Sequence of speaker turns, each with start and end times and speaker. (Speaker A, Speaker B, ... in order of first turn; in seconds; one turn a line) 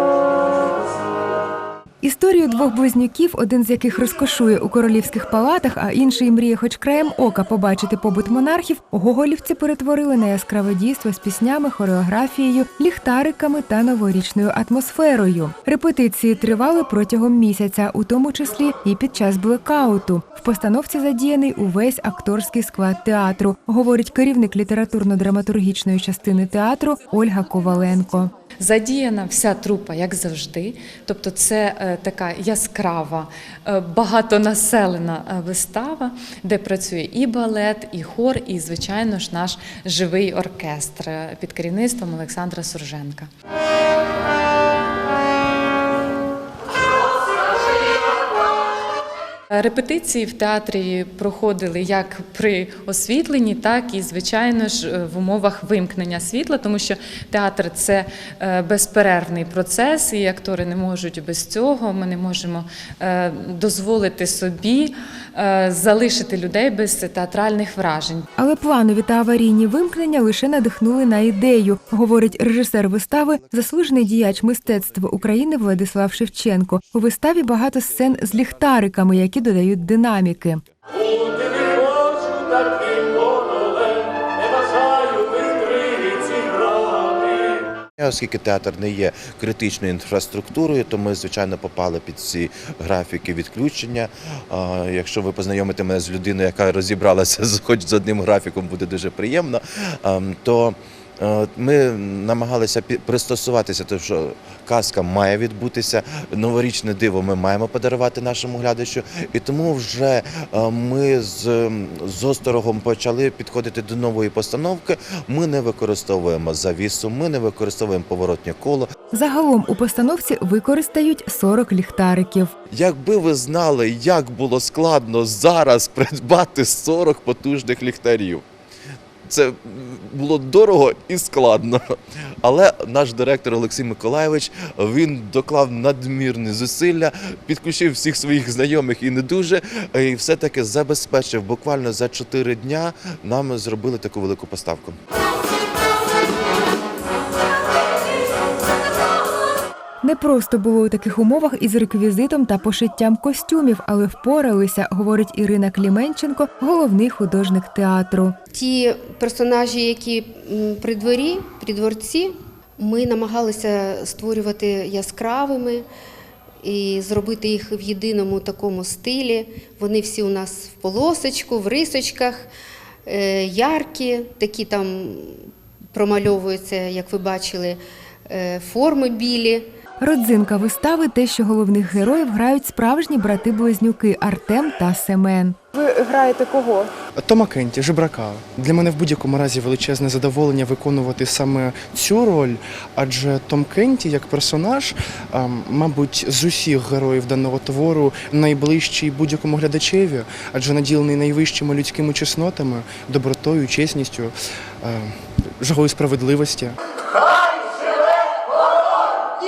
Speaker A: 2.0-28.3
Speaker B: 28.6-43.3
Speaker B: 49.5-68.3
Speaker A: 68.4-80.6
Speaker C: 88.0-118.9
Speaker A: 119.1-122.5
Speaker C: 122.7-128.4
Speaker C: 129.3-131.8
Speaker C: 132.4-145.0
Speaker A: 150.0-158.3
Speaker D: 158.5-165.8
Speaker D: 166.6-172.5
Speaker D: 173.1-179.6
Speaker A: 180.0-186.9
Speaker E: 187.2-206.8